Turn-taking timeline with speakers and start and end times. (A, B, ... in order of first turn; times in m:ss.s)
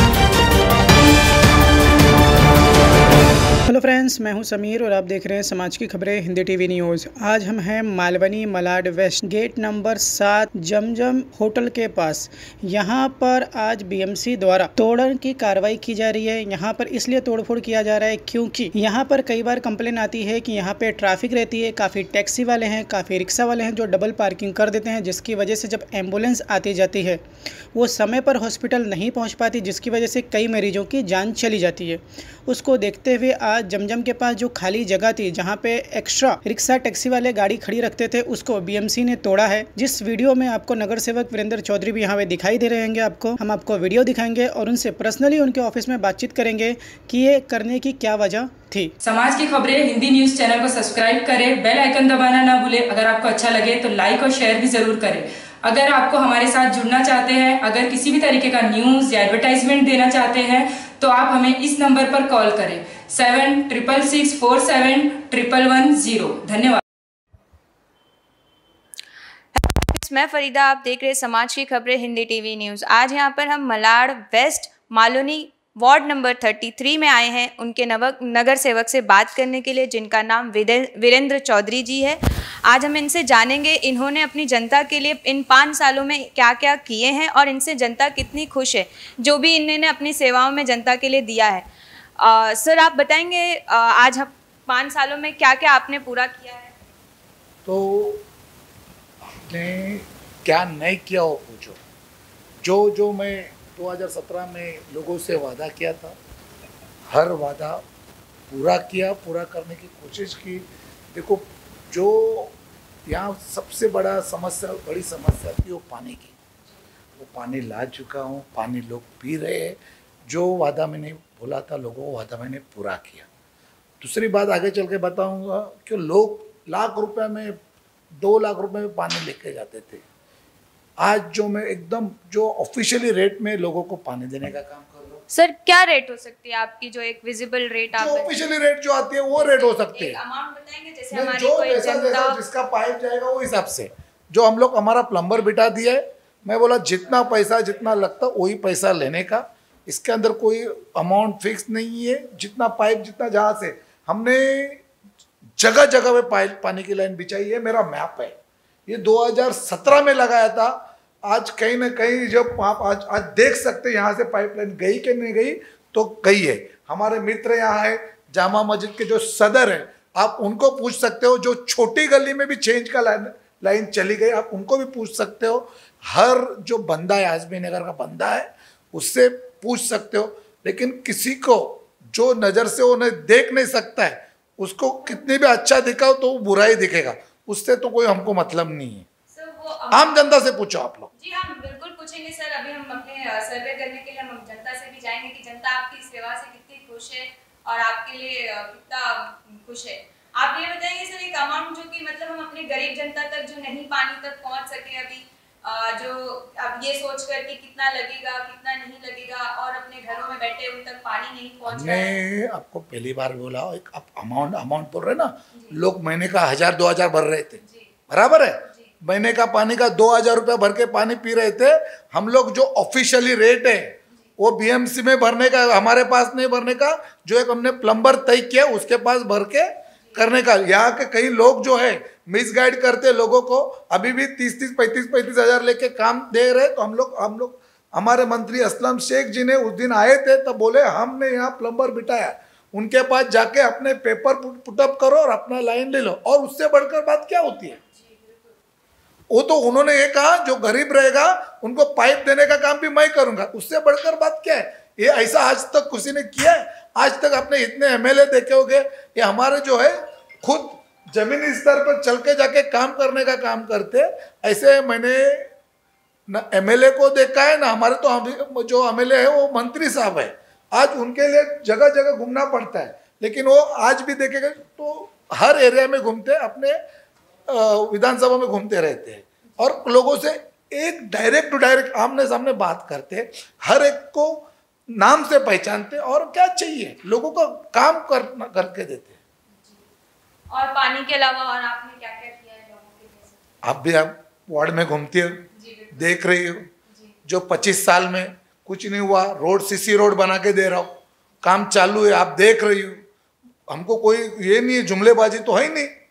0:03.7-0:27.2 A
0:27.7-0:48.9 A
0:49.0-1:06.8 B
1:09.5-1:31.7 C
1:32.2-1:36.7 C
1:37.6-1:38.2 D
1:39.4-1:41.8 D
1:42.6-1:46.2 D
1:47.1-1:47.8 D
1:48.5-1:52.5 D
1:53.1-1:56.3 D
1:57.2-2:03.3 D
2:04.0-2:07.5 D
2:08.2-2:10.0 D
2:11.0-2:15.2 D
2:15.3-2:18.3 C
2:17.9-2:20.2 D
2:19.3-2:22.4 C
2:21.1-2:34.8 D
2:35.6-2:40.8 D
2:41.3-3:09.0 D
3:09.3-3:10.2 C
3:09.9-3:11.1 D
3:11.1-3:32.2 C
3:31.7-4:07.8 D
3:37.6-3:37.9 C
3:38.6-3:38.9 C
4:07.8-4:08.5 C
4:09.3-4:25.5 D
4:26.3-4:36.8 D
4:37.5-4:49.2 D
4:49.5-4:49.8 C
4:50.5-4:53.4 C
4:53.6-4:56.7 D
4:55.5-4:56.2 C
4:56.9-4:57.1 C
4:57.2-5:03.0 D
5:03.7-5:05.9 D